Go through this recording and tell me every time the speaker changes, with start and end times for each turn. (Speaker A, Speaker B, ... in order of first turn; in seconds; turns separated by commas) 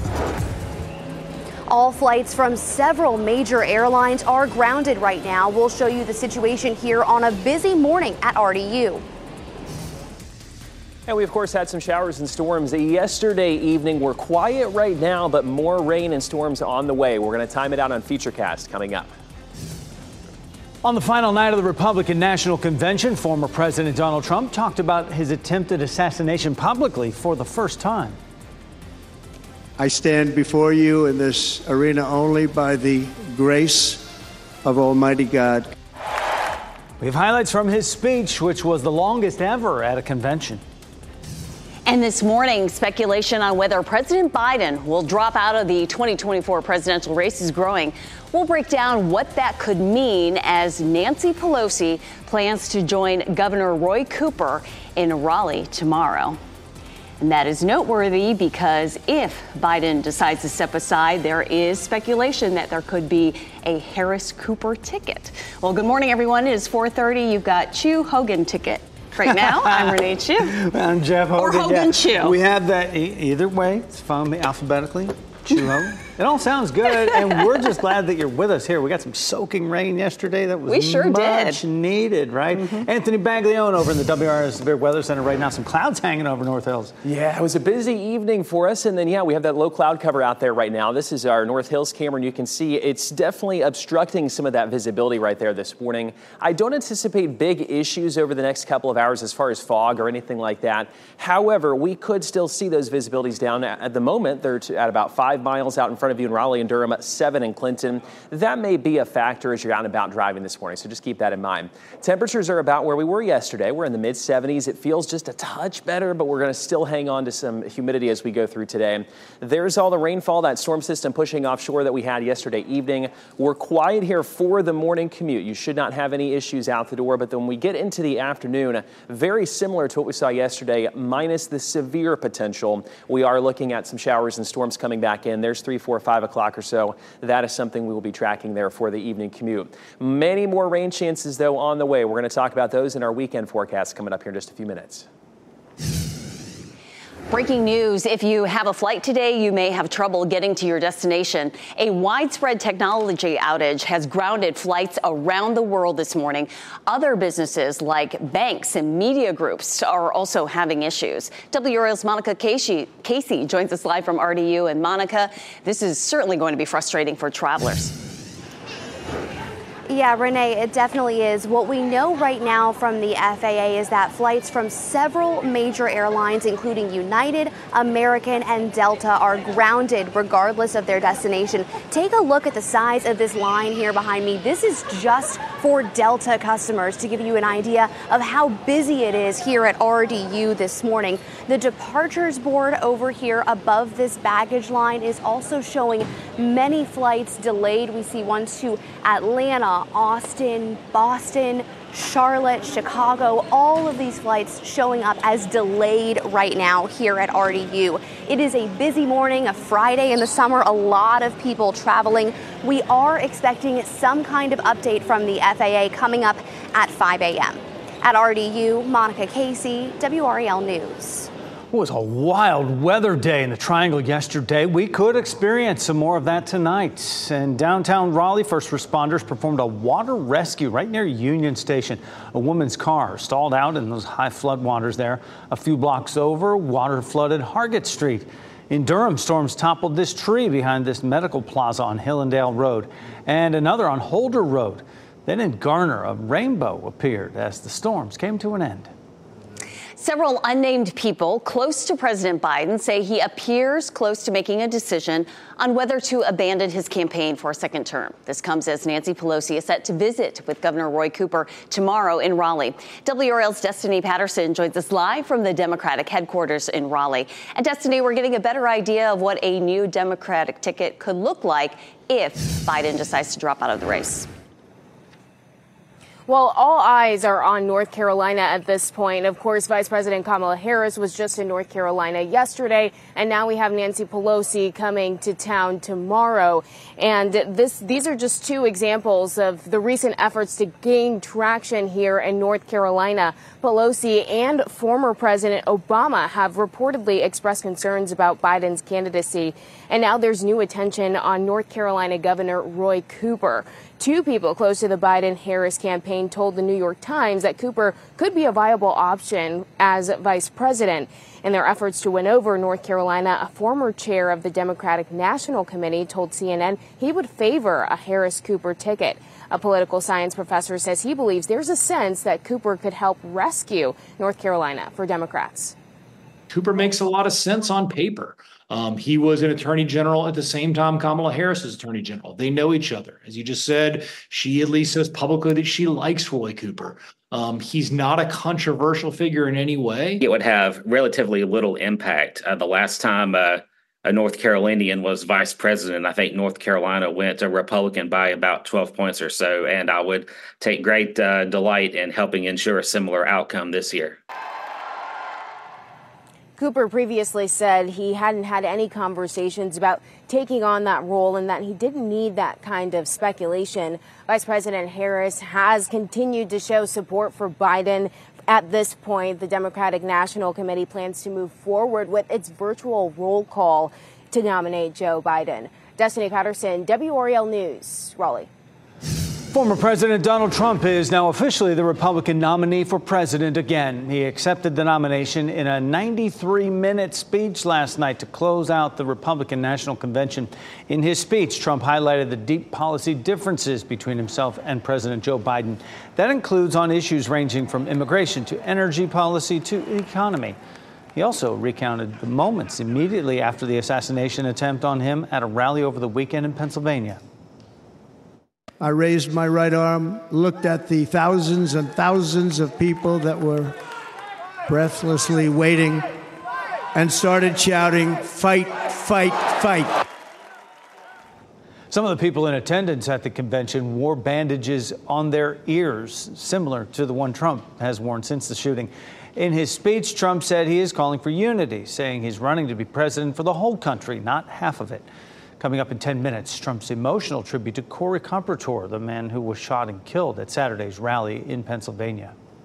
Speaker A: 1.7-9.0, Speaker B: 11.1-19.1, Speaker C: 20.8-28.2, Speaker D: 29.8-34.0, Speaker D: 34.6-35.7, Speaker C: 37.0-40.6, Speaker E: 41.9-56.4, Speaker E: 57.2-70.5, Speaker C: 69.2-86.9, Speaker E: 71.3-72.4, Speaker E: 77.0-77.4, Speaker E: 80.7-81.6, Speaker E: 82.5-82.8, Speaker B: 87.0-145.1, Speaker E: 147.3-167.9, Speaker A: 169.9-221.3, Speaker C: 221.7-248.9, Speaker E: 250.0-274.3, Speaker F: 276.3-325.7, Speaker G: 326.5-340.2, Speaker H: 340.2-354.2, Speaker F: 356.6-378.5, Speaker C: 379.5-400.6, Speaker C: 401.1-407.2, Speaker D: 408.8-413.8, Speaker D: 414.6-416.1, Speaker D: 416.9-420.0, Speaker C: 421.9-435.1, Speaker C: 435.6-442.3